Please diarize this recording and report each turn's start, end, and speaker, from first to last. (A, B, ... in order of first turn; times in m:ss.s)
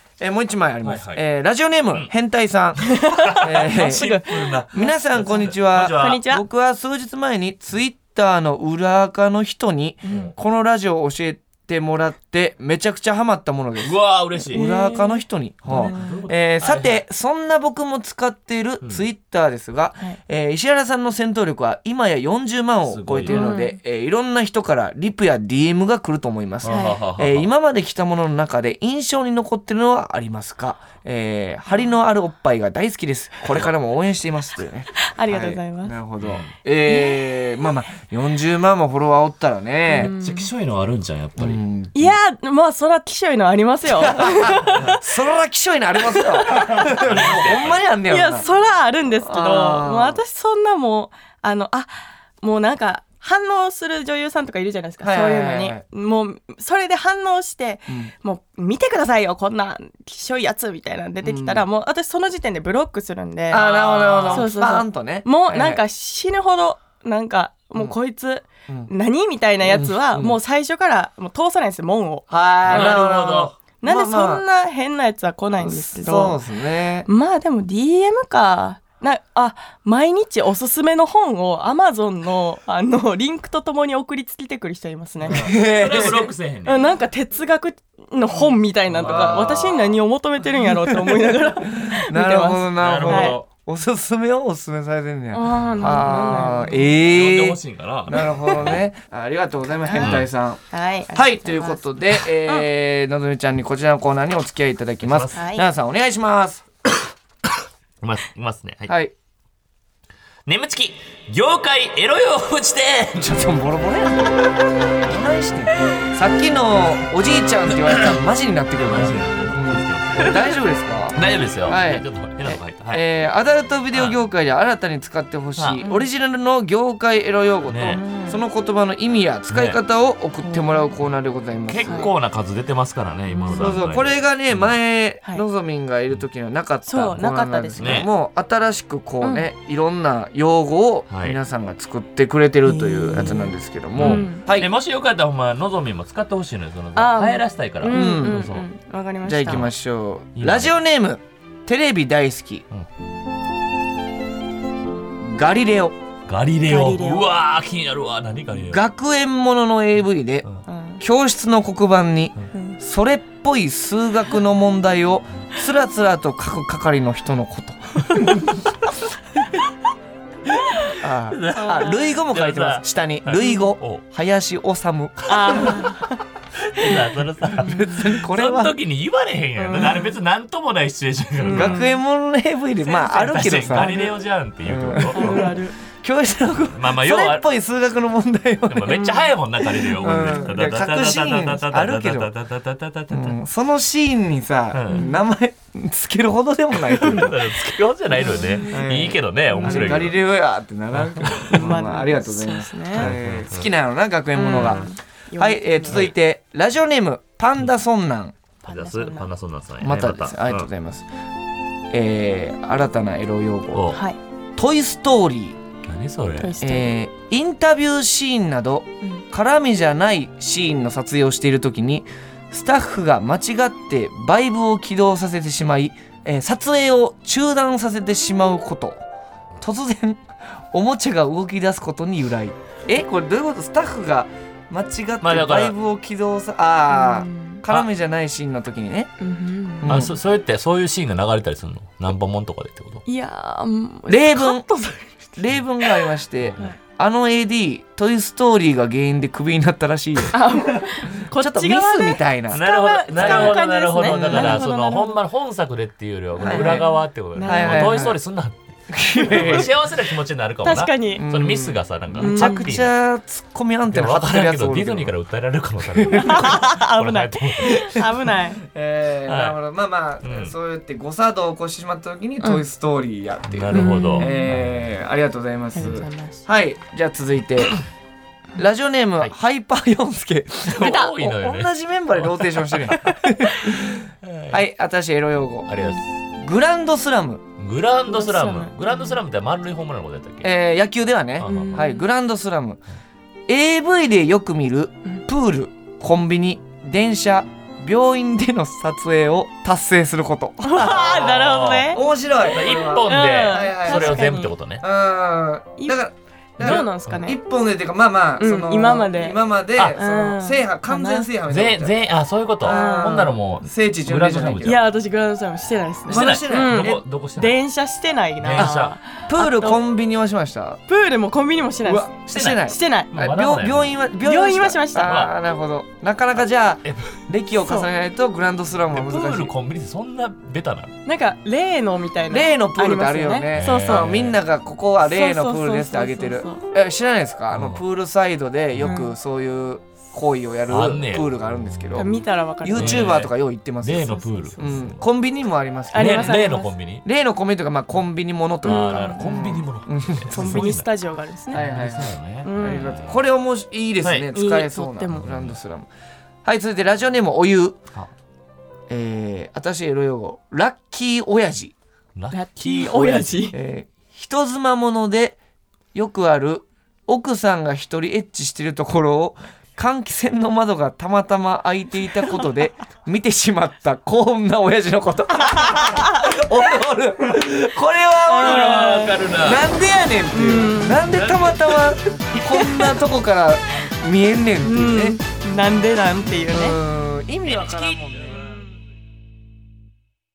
0:00.2-0:02.9 A
0:00.8-0:01.2 B
0:02.9-0:06.4 C
0:03.2-0:06.2 B
0:03.4-0:04.2 A
0:04.7-0:14.0 A
0:10.0-0:10.3 C
0:10.0-0:10.3 B
0:13.8-0:14.7 B
0:14.5-0:40.1 A
0:14.5-0:16.2 C
0:15.6-0:17.0 B
0:22.9-0:23.5 B
0:23.3-0:23.8 C
0:26.6-0:27.5 B
0:26.7-0:27.0 C
0:35.0-0:36.0 C
0:36.2-0:36.5 B
0:36.9-0:37.3 C
0:39.9-0:40.5 C
0:40.0-0:41.6 B
0:41.4-0:41.9 A
0:41.9-0:45.0 C
0:44.0-0:48.5 A
0:46.1-0:46.7 C
0:46.5-0:47.8 B
0:48.1-1:03.6 C
0:49.2-0:50.2 A
0:55.0-0:55.8 A
1:01.2-1:01.6 A
1:03.5-1:05.8 A
1:03.5-1:04.5 B
1:04.3-1:13.0 C
1:09.6-1:10.4 A
1:12.3-1:14.4 A
1:12.6-1:13.6 B
1:13.8-1:16.4 C
1:15.6-1:17.1 A
1:17.0-1:26.1 C
1:25.3-1:26.3 A
1:25.3-1:26.9 B
1:26.6-1:33.4 C
1:28.9-1:29.9 B
1:29.0-1:29.6 A
1:30.6-1:40.6 A
1:32.8-1:33.5 B
1:35.3-1:37.0 C
1:35.8-1:36.1 B
1:36.8-1:38.8 B
1:38.2-1:38.6 C
1:39.8-1:41.9 C
1:40.0-1:40.3 B
1:41.1-1:46.6 A
1:45.0-1:45.4 B
1:45.3-1:45.6 C
1:48.0-1:48.9 B
1:48.9-1:49.1 A
1:50.4-1:53.3 B
1:53.2-1:54.5 A
1:55.0-2:12.1 A
1:57.9-1:58.2 B
1:58.8-2:00.4 B
2:01.1-2:03.0 B
2:03.9-2:04.2 B
2:05.8-2:06.0 C
2:07.7-2:08.0 B
2:07.8-2:08.4 C
2:09.5-2:09.8 B
2:10.4-2:10.9 C
2:11.7-2:14.7 B
2:11.8-2:12.1 C
2:13.3-2:13.8 C
2:13.5-2:24.7 A
2:16.8-2:18.1 C
2:17.8-2:18.1 B
2:19.2-2:19.5 C
2:21.1-2:21.4 B
2:22.6-2:24.4 C
2:23.9-2:28.6 B
2:27.0-2:29.7 C
2:27.9-2:28.4 A
2:29.2-2:32.6 A
2:29.4-2:29.7 B
2:30.4-2:30.7 B
2:35.2-2:36.0 A
2:36.3-2:38.8 B
2:36.7-2:37.3 C
2:38.6-2:40.5 A
2:40.7-2:41.0 C
2:41.0-2:48.4 A
2:42.5-2:42.8 C
2:50.8-2:54.0 B
2:51.0-2:55.8 A
2:51.5-2:52.0 C
2:53.4-2:53.7 C
2:55.3-2:56.2 C
2:55.5-2:55.8 B
2:56.6-3:01.8 B
2:57.5-2:58.8 A
2:57.6-2:58.0 C
2:59.6-3:00.1 C
3:01.4-3:02.0 C
3:01.5-3:04.0 A
3:03.0-3:05.5 B
3:03.7-3:04.1 C
3:04.6-3:09.2 A
3:05.0-3:05.7 C
3:06.7-3:07.4 B
3:08.7-3:13.4 B
3:08.9-3:10.5 C
3:10.0-3:12.3 A
3:13.1-3:17.4 A
3:14.7-3:15.0 B
3:14.9-3:15.2 C
3:16.7-3:20.2 B
3:18.1-3:18.9 C
3:18.2-3:28.4 A
3:19.5-3:20.0 C
3:20.9-3:21.8 B
3:21.5-3:23.1 C
3:22.9-3:23.7 B
3:24.3-3:26.0 C
3:25.9-3:26.1 B
3:28.6-3:29.3 C
3:28.7-3:30.7 B
3:29.8-3:31.1 A
3:31.9-3:34.0 A
3:33.7-3:34.0 B
3:33.9-3:34.2 C
3:34.6-3:35.6 A
3:35.9-3:36.5 B
3:36.4-3:37.0 C
3:36.6-3:49.0 A
3:49.6-3:59.1 A
3:55.2-3:55.7 B
3:56.9-3:57.6 C
3:59.2-4:00.1 C
3:59.8-4:00.1 A
3:59.9-4:03.0 B
4:03.0-4:06.0 C
4:04.1-4:04.7 A
4:05.4-4:10.4 A
4:06.4-4:06.7 B
4:10.3-4:15.2 C
4:11.2-4:14.6 A
4:12.5-4:22.9 B
4:16.4-4:16.9 A
4:16.4-4:18.1 C
4:17.4-4:18.2 A
4:18.9-4:19.7 A
4:19.1-4:19.6 C
4:20.6-4:21.2 C
4:21.2-4:25.1 A
4:22.2-4:22.7 C
4:23.9-4:28.1 B
4:25.9-4:26.3 A
4:26.1-4:28.6 C
4:28.7-4:37.8 A
4:29.2-4:29.6 B
4:30.2-4:30.5 B
4:33.5-4:34.9 B
4:33.7-4:34.5 C
4:35.7-4:36.4 C
4:38.6-4:45.7 A
4:40.7-4:43.0 B
4:44.2-4:44.6 B
4:45.7-4:46.0 B
4:46.4-4:47.4 A
4:47.6-4:50.5 B
4:48.1-4:49.2 C
4:50.4-4:52.8 A
4:51.4-4:51.9 B
4:51.4-4:52.0 C
4:53.5-5:01.1 A
5:00.6-5:02.0 C
5:00.8-5:04.8 B
5:01.9-5:12.0 A
5:03.1-5:04.5 C
5:06.6-5:07.2 B
5:06.6-5:07.4 C
5:08.4-5:09.4 C
5:09.9-5:11.3 C
5:11.5-5:14.8 B
5:12.6-5:14.8 A
5:12.6-5:13.3 C
5:14.6-5:19.8 C
5:16.1-5:17.0 A
5:16.1-5:17.5 B
5:18.4-5:19.0 B
5:19.3-5:20.8 A
5:20.9-5:23.1 C
5:21.8-5:29.5 A
5:22.3-5:24.0 B
5:24.2-5:25.2 C
5:25.0-5:25.3 B
5:26.8-5:27.2 B
5:28.9-5:30.9 B
5:31.0-5:34.1 C
5:32.3-5:42.1 A
5:33.5-5:34.4 B
5:35.1-5:36.6 C
5:37.5-5:37.8 B
5:38.8-5:39.1 C
5:40.7-5:42.1 B
5:42.0-5:43.2 C
5:42.6-5:46.4 A
5:42.7-5:45.0 B
5:44.1-5:44.8 C
5:45.9-5:46.7 C
5:45.9-5:47.0 B
5:47.0-5:50.8 A
5:48.6-5:50.9 B
5:48.6-5:49.3 C
5:50.3-5:51.6 C
5:51.5-5:53.2 B
5:51.5-5:55.9 A
5:52.4-5:53.0 C
5:54.0-5:54.3 B
5:54.3-5:55.3 C
5:55.1-5:55.5 B
5:56.4-5:57.8 A
5:58.9-6:01.7 A
6:02.1-6:03.5 B
6:02.3-6:03.6 C
6:03.5-6:05.4 A
6:05.9-6:25.2 A
6:15.6-6:16.2 C
6:18.3-6:19.2 C
6:18.3-6:19.7 B
6:20.3-6:21.0 C
6:21.1-6:22.4 B
6:22.6-6:22.8 C
6:24.6-6:26.8 C
6:26.5-6:28.6 A